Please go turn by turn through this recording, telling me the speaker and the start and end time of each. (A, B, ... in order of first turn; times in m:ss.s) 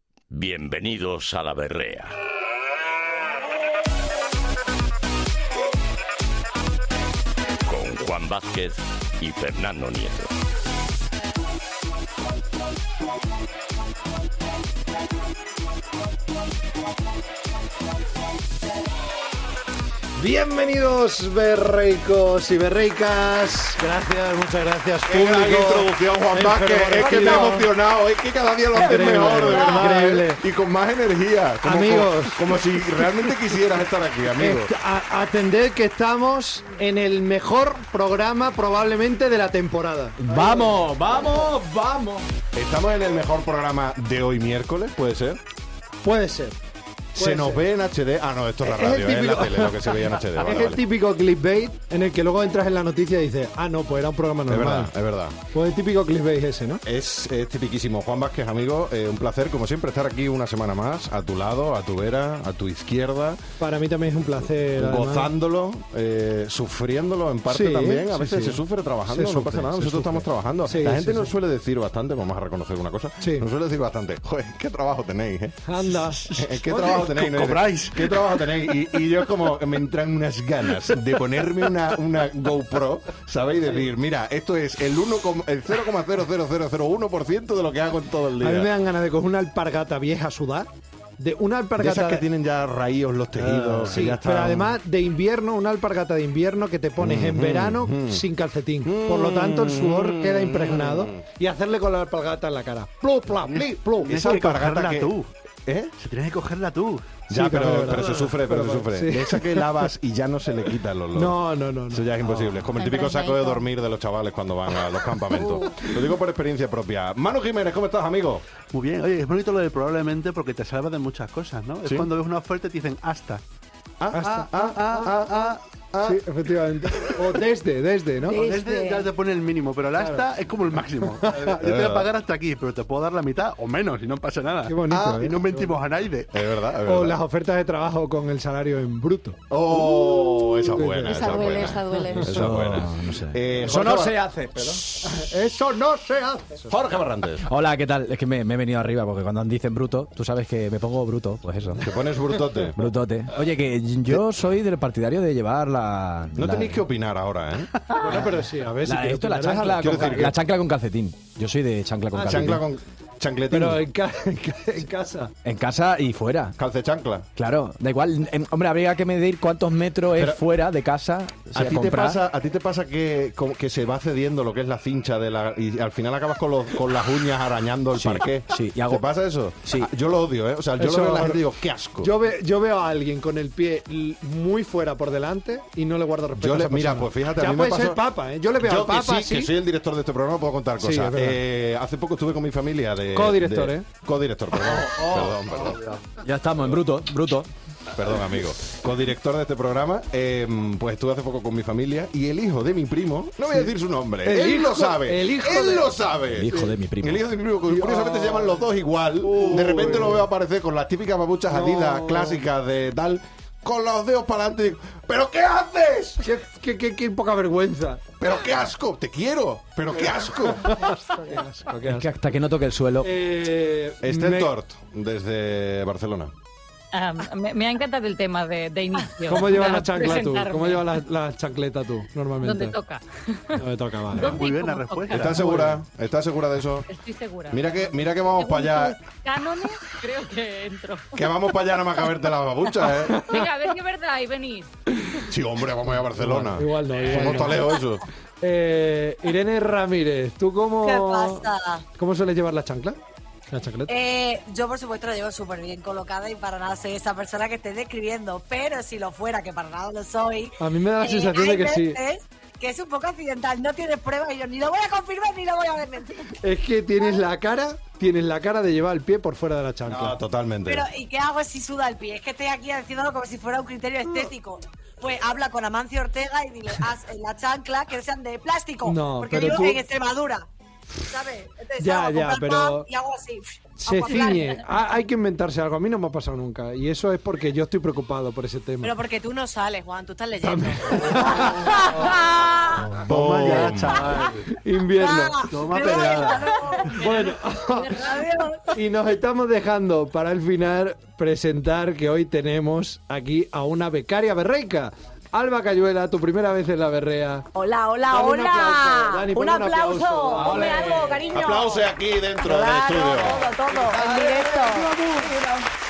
0:00.3-0:02.2 A
0:07.6-0:10.3 A
0:20.2-0:27.7 B
0:25.1-0:34.7 C
0:28.7-0:30.4 B
0:31.6-0:32.6 B
0:34.4-0:40.8 B
0:40.2-0:42.2 D
0:42.5-0:45.4 C
0:46.0-0:46.6 B
0:47.1-0:47.6 B
0:47.1-0:50.8 C
0:48.6-0:54.9 B
0:54.5-0:55.4 C
0:55.5-0:56.8 B
0:56.8-1:03.4 C
1:03.6-1:05.3 B
1:04.7-1:15.7 C
1:07.5-1:11.3 B
1:13.2-1:13.5 B
1:15.6-1:16.3 B
1:16.2-1:18.5 E
1:16.4-1:28.7 C
1:28.4-1:32.2 B
1:31.8-1:34.8 C
1:33.5-1:44.5 B
1:37.0-1:38.2 C
1:38.8-1:41.2 C
1:44.1-1:45.1 C
1:44.1-1:45.3 E
1:45.6-1:45.9 C
1:46.0-1:47.2 E
1:47.3-1:58.4 C
1:47.3-1:49.9 B
1:51.1-1:52.4 B
1:52.8-1:53.6 F
1:58.7-2:03.4 E
2:04.0-2:06.2 C
2:04.1-2:05.2 B
2:06.0-2:08.4 B
2:06.9-2:07.4 C
2:08.3-2:09.1 F
2:08.3-2:16.3 E
2:09.9-2:10.2 B
2:11.1-2:11.6 B
2:11.4-2:12.1 C
2:14.6-2:15.7 B
2:14.9-2:15.3 C
2:16.3-2:17.2 C
2:16.8-2:19.4 B
2:19.5-2:24.2 C
2:20.7-2:22.3 B
2:21.0-2:22.3 F
2:22.2-2:25.0 D
2:25.0-2:26.7 B
2:26.7-2:27.5 C
2:27.4-2:31.9 D
2:31.8-2:32.9 C
2:32.7-2:36.8 D
2:36.4-2:37.7 C
2:37.9-2:42.6 D
2:37.9-2:40.3 B
2:39.8-2:40.4 C
2:42.1-2:42.6 B
2:42.2-2:43.8 C
2:43.5-2:45.3 B
2:45.4-2:46.6 D
2:46.6-2:47.3 C
2:47.4-2:52.2 D
2:50.2-2:50.4 C
2:51.5-3:02.1 C
2:57.9-2:59.0 D
2:59.6-2:59.9 D
3:00.8-3:01.4 B
3:02.0-3:09.5 B
3:06.4-3:08.0 C
3:08.6-3:15.8 C
3:10.8-3:11.4 B
3:13.1-3:13.8 B
3:15.5-3:16.0 E
3:16.2-3:17.5 D
3:17.9-3:36.2 C
3:24.2-3:26.0 B
3:26.3-3:27.2 D
3:27.7-3:28.6 B
3:29.2-3:30.2 B
3:31.5-3:32.4 B
3:36.2-3:38.0 B
3:38.2-3:40.9 C
3:39.9-3:42.1 B
3:41.8-3:43.1 D
3:43.0-3:44.5 B
3:44.0-3:46.3 C
3:46.9-3:50.9 G
3:49.3-3:52.8 B
3:52.4-3:55.3 G
3:53.5-3:54.4 B
3:54.2-3:55.5 E
3:55.1-3:56.9 C
3:55.4-3:55.8 B
3:56.9-4:01.2 G
3:57.5-3:59.0 C
4:01.1-4:03.4 C
4:02.9-4:04.7 G
4:05.2-4:08.0 C
4:06.1-4:07.8 B
4:08.4-4:11.4 B
4:10.8-4:11.8 H
4:12.0-4:13.0 B
4:13.5-4:13.9 B
4:13.8-4:26.3 H
4:20.6-4:22.0 B
4:26.4-4:30.2 B
4:29.8-4:30.8 C
4:30.6-4:44.6 H
4:38.8-4:39.8 B
4:41.8-4:42.9 B
4:43.8-4:48.9 B
4:48.8-4:52.9 H
4:50.4-5:07.4 B
4:52.9-4:54.4 E
4:53.0-4:54.1 C
4:55.0-4:58.8 H
4:55.5-4:56.6 E
5:07.5-5:15.4 F
5:08.1-5:10.9 B
5:10.3-5:11.2 D
5:11.3-5:13.5 C
5:13.7-5:15.6 D